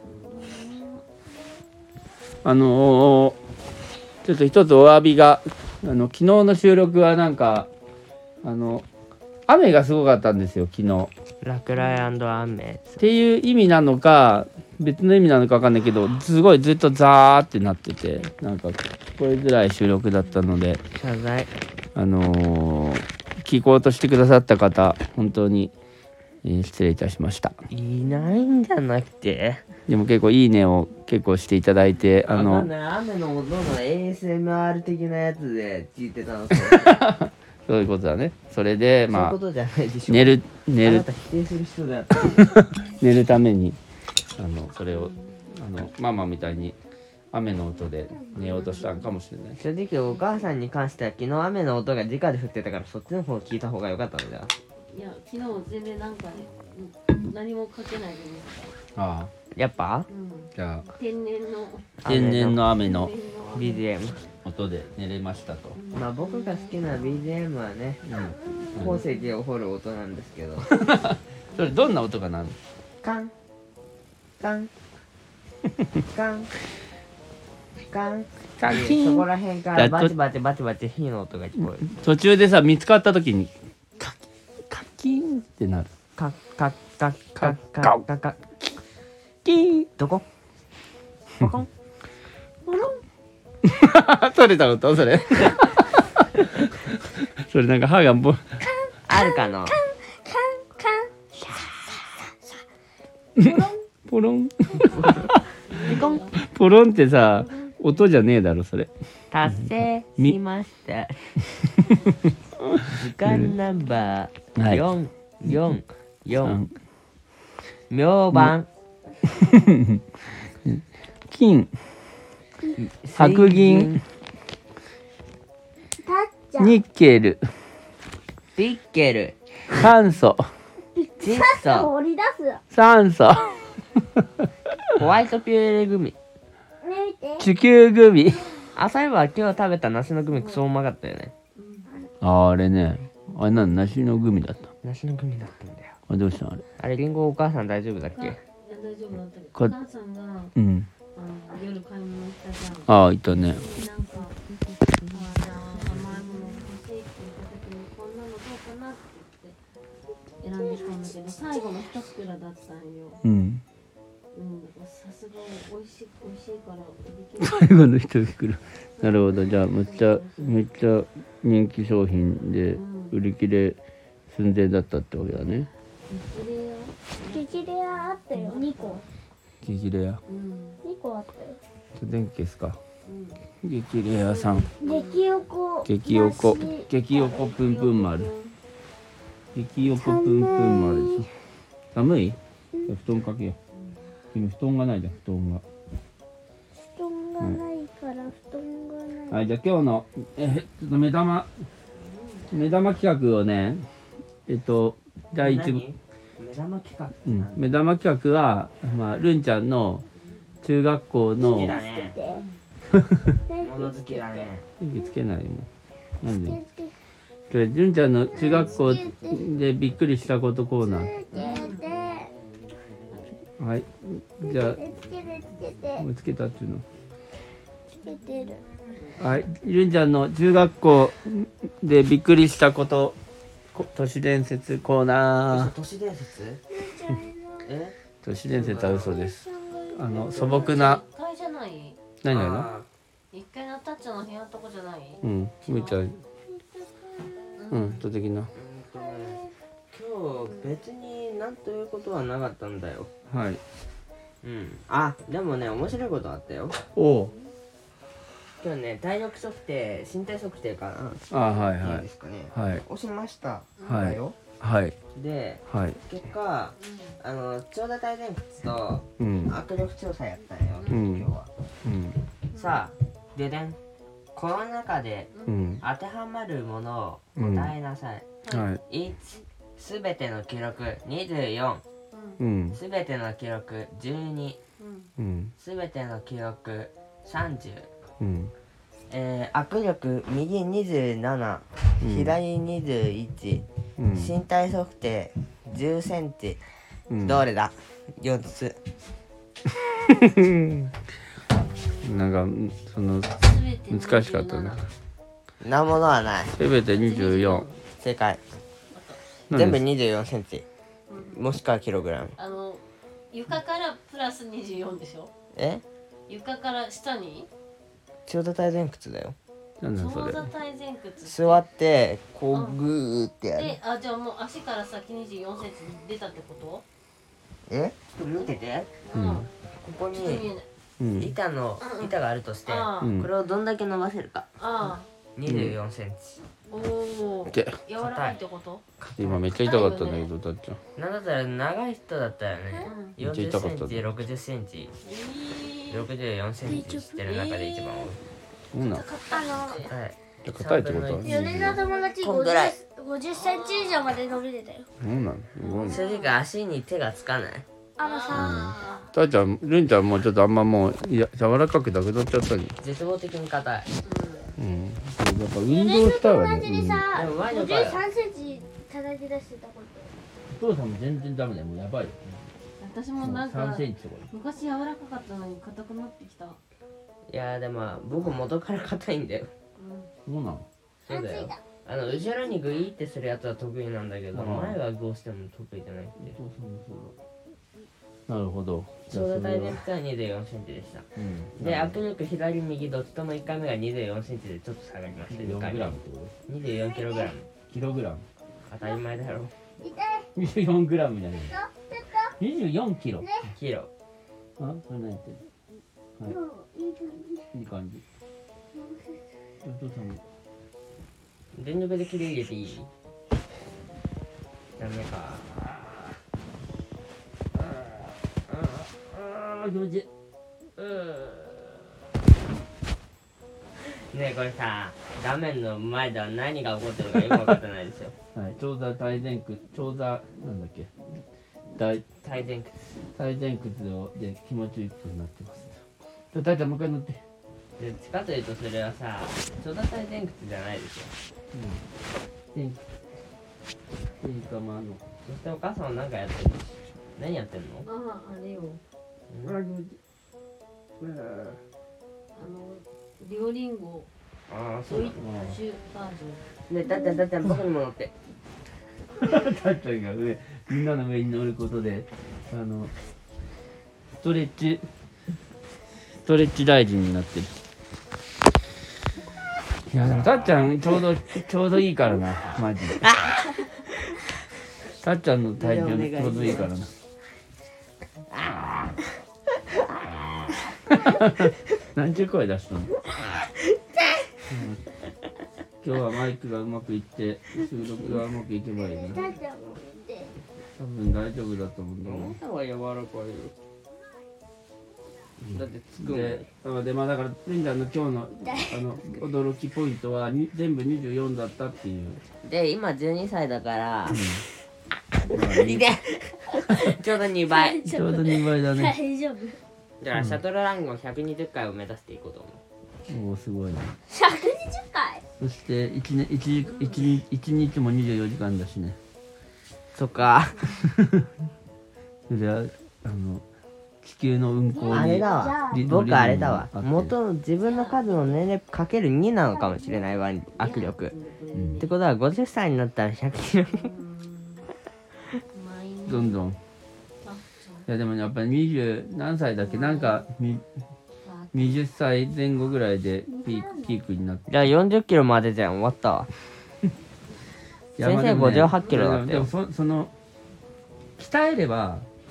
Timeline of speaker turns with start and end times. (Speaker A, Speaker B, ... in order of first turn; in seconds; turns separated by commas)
Speaker A: 0.4-1.0, Speaker B: 2.4-3.4, Speaker B: 4.2-7.7, Speaker B: 8.4-8.9, Speaker B: 9.5-11.1, Speaker C: 11.4-13.0, Speaker B: 13.0-20.8, Speaker C: 20.9-21.5, Speaker B: 21.9-25.7, Speaker B: 26.4-27.5, Speaker C: 27.7-29.6, Speaker B: 29.9-32.7, Speaker C: 32.3-37.0, Speaker B: 36.5-39.4, Speaker C: 39.1-42.6, Speaker B: 40.1-41.1, Speaker B: 42.3-43.8, Speaker B: 44.4-46.8, Speaker B: 47.3-49.6, Speaker D: 48.4-49.0, Speaker C: 49.6-54.5, Speaker D: 54.9-58.7, Speaker B: 59.0-59.3, Speaker C: 59.5-60.1, Speaker D: 60.1-61.9, Speaker B: 60.5-60.9, Speaker C: 62.0-62.6, Speaker B: 62.1-63.1, Speaker D: 62.8-63.9, Speaker C: 63.5-64.3, Speaker B: 64.4-65.8, Speaker D: 65.8-67.2, Speaker C: 65.9-68.0, Speaker B: 68.0-69.0, Speaker A: 68.5-68.7, Speaker C: 68.7-70.7, Speaker B: 70.7-72.6, Speaker C: 73.0-73.3, Speaker C: 74.4-74.7, Speaker C: 76.1-76.5, Speaker C: 77.9-81.8, Speaker B: 78.6-80.2, Speaker B: 81.8-84.2, Speaker B: 84.7-85.9, Speaker C: 86.2-88.4, Speaker B: 87.3-88.0, Speaker B: 89.5-89.9, Speaker C: 90.0-90.2, Speaker C: 91.4-91.7, Speaker D: 92.7-93.0, Speaker B: 93.7-96.2, Speaker B: 96.9-98.6, Speaker A: 98.6-102.5, Speaker C: 99.1-99.8, Speaker A: 103.4-103.8, Speaker B: 103.4-105.4, Speaker D: 105.7-106.4, Speaker C: 105.8-106.2, Speaker B: 106.0-108.9, Speaker C: 109.3-111.3, Speaker B: 111.8-113.5, Speaker C: 112.9-116.6, Speaker B: 114.6-114.9, Speaker B: 116.4-116.7, Speaker C: 117.9-118.7, Speaker B: 119.2-120.0, Speaker B: 120.6-121.7, Speaker C: 122.8-124.0, Speaker B: 123.2-124.0, Speaker A: 126.0-126.8, Speaker B: 126.6-127.4, Speaker C: 128.6-129.4, Speaker B: 129.7-130.5, Speaker A: 130.9-132.6, Speaker C: 131.2-131.9, Speaker B: 132.7-134.5, Speaker C: 135.0-136.2, Speaker A: 136.8-137.5, Speaker B: 137.4-138.6, Speaker C: 138.8-141.3, Speaker D: 141.6-141.9, Speaker B: 142.2-144.7, Speaker C: 144.8-146.0, Speaker B: 146.1-146.6, Speaker C: 146.8-148.4, Speaker D: 148.2-150.5, Speaker B: 150.6-150.9, Speaker D: 151.2-152.9, Speaker B: 152.9-153.7, Speaker D: 153.5-154.4, Speaker D: 155.1-159.6, Speaker D: 160.4-163.2, Speaker B: 163.2-163.6, Speaker D: 164.3-167.7, Speaker B: 167.4-173.8, Speaker D: 169.0-170.6, Speaker D: 172.7-173.2, Speaker B: 174.3-175.7, Speaker D: 176.1-179.1, Speaker A: 177.2-179.0, Speaker B: 179.6-180.2, Speaker D: 180.3-180.8, Speaker A: 180.8-181.6, Speaker B: 181.9-182.8, Speaker D: 183.1-183.4, Speaker B: 183.6-184.7, Speaker D: 184.2-185.5, Speaker A: 184.8-186.9, Speaker B: 185.8-188.3, Speaker D: 187.1-188.6, Speaker B: 189.5-191.3, Speaker A: 190.0-191.3, Speaker B: 191.9-193.6, Speaker B: 194.3-195.6, Speaker A: 196.8-199.5, Speaker B: 197.4-197.6, Speaker B: 199.3-201.6, Speaker D: 202.0-202.5, Speaker B: 202.5-203.9, Speaker B: 204.5-205.8, Speaker C: 205.4-207.7, Speaker B: 207.3-210.1, Speaker B: 210.6-211.8, Speaker C: 211.4-212.2, Speaker A: 211.5-212.4, Speaker D: 212.3-212.6, Speaker B: 212.9-213.3, Speaker A: 213.3-214.5, Speaker C: 213.6-214.7, Speaker B: 214.8-215.7, Speaker B: 216.2-216.6, Speaker A: 216.3-216.9, Speaker B: 217.5-221.2, Speaker A: 218.3-219.4, Speaker A: 220.8-222.3, Speaker D: 221.3-222.0, Speaker B: 223.6-224.8, Speaker A: 224.4-226.1, Speaker B: 226.0-226.8, Speaker A: 228.0-228.7, Speaker B: 229.2-233.2, Speaker B: 233.7-235.8, Speaker C: 235.5-236.6, Speaker A: 236.7-237.7, Speaker C: 237.6-237.9, Speaker B: 238.2-241.0, Speaker C: 238.5-239.2, Speaker A: 239.1-240.1, Speaker C: 240.1-240.8, Speaker D: 240.6-242.0, Speaker B: 242.2-242.7, Speaker C: 242.3-242.9, Speaker D: 243.3-246.0, Speaker B: 245.2-246.2, Speaker A: 246.5-247.3, Speaker D: 247.6-248.0, Speaker B: 247.7-248.5, Speaker C: 248.5-253.1, Speaker A: 248.9-249.5, Speaker B: 253.3-253.6, Speaker C: 254.4-256.8, Speaker B: 256.9-257.3, Speaker C: 258.6-261.3, Speaker B: 261.3-262.8, Speaker C: 261.8-264.4, Speaker B: 263.8-264.9, Speaker C: 265.1-271.5, Speaker B: 265.7-266.0, Speaker D: 266.8-267.2, Speaker B: 269.2-269.6, Speaker B: 270.9-271.3, Speaker B: 271.8-272.2, Speaker D: 272.5-272.8, Speaker C: 272.5-273.8, Speaker C: 274.3-275.3, Speaker B: 275.5-275.8, Speaker C: 275.8-278.3, Speaker B: 277.4-277.7, Speaker B: 278.5-278.8, Speaker C: 278.9-281.8, Speaker D: 282.1-282.4, Speaker B: 282.4-282.8, Speaker C: 282.7-284.6, Speaker D: 284.8-285.1, Speaker B: 285.2-285.5, Speaker C: 285.6-287.9, Speaker B: 288.2-288.5, Speaker C: 289.1-296.6, Speaker B: 292.0-292.4, Speaker B: 294.0-294.3, Speaker B: 297.1-297.4, Speaker C: 297.2-298.8, Speaker B: 300.1-300.9, Speaker B: 302.0-304.8, Speaker D: 303.4-304.9, Speaker C: 305.6-306.6, Speaker B: 306.6-307.7, Speaker D: 306.9-307.8, Speaker C: 308.0-308.4, Speaker D: 308.9-309.2, Speaker B: 309.5-309.8, Speaker C: 309.5-310.6, Speaker D: 311.1-311.4, Speaker C: 311.3-312.4, Speaker D: 312.4-315.3, Speaker C: 315.6-315.8, Speaker D: 316.3-317.5, Speaker C: 318.3-319.4, Speaker B: 319.8-320.5, Speaker D: 319.9-321.6, Speaker C: 321.2-323.8, Speaker D: 322.5-322.8, Speaker D: 323.6-326.9, Speaker C: 327.7-328.9, Speaker D: 329.1-329.5, Speaker B: 329.1-329.5, Speaker C: 329.8-330.5, Speaker D: 330.1-330.7, Speaker B: 331.0-331.3, Speaker C: 331.1-334.5, Speaker D: 331.8-332.1, Speaker D: 332.7-333.1, Speaker B: 333.0-333.3, Speaker D: 334.6-335.1, Speaker C: 335.4-336.4, Speaker B: 335.4-335.8, Speaker D: 336.7-338.8, Speaker B: 337.5-337.8, Speaker C: 337.9-338.4, Speaker C: 339.0-339.5, Speaker B: 339.2-340.8, Speaker D: 339.6-340.3, Speaker C: 341.0-344.9, Speaker D: 342.8-343.2, Speaker B: 343.2-344.1, Speaker D: 345.0-346.1, Speaker C: 345.9-348.2, Speaker A: 346.6-347.2, Speaker D: 347.3-348.1, Speaker B: 348.7-349.1, Speaker A: 348.9-349.9, Speaker D: 349.3-349.9, Speaker C: 349.8-352.8, Speaker B: 350.4-351.8, Speaker A: 351.2-354.9, Speaker D: 353.3-354.0, Speaker B: 355.0-356.0, Speaker D: 355.6-356.3, Speaker C: 355.9-357.6, Speaker A: 358.0-358.8, Speaker D: 358.0-359.1, Speaker B: 358.3-362.8, Speaker C: 362.8-363.9, Speaker D: 364.0-364.5, Speaker B: 364.6-367.1, Speaker A: 365.7-370.1, Speaker C: 367.1-368.0, Speaker B: 370.5-372.4, Speaker D: 372.8-376.6, Speaker B: 373.2-374.3, Speaker C: 377.3-379.5, Speaker D: 379.8-380.1, Speaker B: 380.2-380.7, Speaker C: 381.1-386.4, Speaker A: 381.1-382.4, Speaker B: 384.3-384.8, Speaker B: 386.3-387.2, Speaker B: 388.3-389.8, Speaker C: 389.1-391.1, Speaker B: 391.1-392.0, Speaker C: 391.6-396.0, Speaker B: 395.3-396.3, Speaker C: 396.5-397.5, Speaker A: 396.8-397.3, Speaker B: 397.7-398.2, Speaker C: 398.7-399.5, Speaker A: 399.8-400.3, Speaker B: 400.4-401.6, Speaker A: 401.4-402.4, Speaker B: 402.4-403.3, Speaker A: 403.2-403.5, Speaker C: 403.5-403.9, Speaker B: 404.6-405.4, Speaker A: 406.2-407.5, Speaker B: 407.5-408.0, Speaker A: 408.7-409.2, Speaker B: 409.6-410.2, Speaker C: 411.5-412.9, Speaker C: 414.8-415.6, Speaker B: 418.5-420.1, Speaker C: 423.9-428.1, Speaker B: 428.4-430.9, Speaker B: 431.8-432.1, Speaker C: 432.2-432.8, Speaker B: 433.1-437.2, Speaker C: 437.8-441.1, Speaker B: 441.5-441.8, Speaker B: 442.5-442.8, Speaker B: 444.2-445.0, Speaker C: 445.2-447.9, Speaker D: 447.8-448.8, Speaker C: 449.3-449.6, Speaker B: 449.4-450.0, Speaker B: 451.0-451.6, Speaker D: 452.3-454.1, Speaker C: 454.5-455.2, Speaker D: 454.9-456.4, Speaker B: 455.2-455.6, Speaker C: 456.7-458.1, Speaker B: 459.1-462.9, Speaker B: 464.2-464.9, Speaker B: 466.2-467.5, Speaker B: 469.9-473.0, Speaker B: 475.0-476.9, Speaker C: 475.6-476.7, Speaker C: 478.3-478.9, Speaker B: 480.9-482.9, Speaker B: 484.5-484.8, Speaker B: 485.8-489.2, Speaker A: 488.8-490.4, Speaker B: 490.8-492.4, Speaker C: 492.1-493.6, Speaker B: 495.4-502.2, Speaker C: 495.5-496.5, Speaker A: 498.5-498.8, Speaker C: 502.4-504.2, Speaker B: 504.1-504.4, Speaker B: 505.3-505.9, Speaker C: 505.4-507.8, Speaker A: 507.5-509.6, Speaker B: 507.8-509.0, Speaker C: 510.0-512.6, Speaker B: 510.1-510.4, Speaker B: 513.1-514.0, Speaker A: 514.1-515.2, Speaker B: 515.4-519.0, Speaker D: 516.7-517.0, Speaker C: 520.0-520.8, Speaker B: 520.8-521.3, Speaker B: 522.3-523.4, Speaker B: 524.0-527.1, Speaker A: 524.7-525.8, Speaker C: 524.9-531.1, Speaker D: 527.6-528.0, Speaker A: 529.5-530.2, Speaker D: 530.6-531.9, Speaker B: 531.5-531.8, Speaker C: 531.8-533.9, Speaker D: 533.7-534.7, Speaker D: 535.5-536.4, Speaker B: 536.1-536.6, Speaker D: 537.2-537.9, Speaker B: 537.9-540.6, Speaker D: 539.6-540.2, Speaker D: 541.2-541.8, Speaker B: 541.5-544.5, Speaker A: 543.3-544.0, Speaker C: 544.5-546.3, Speaker B: 548.0-550.1, Speaker C: 548.0-549.5, Speaker B: 551.2-552.1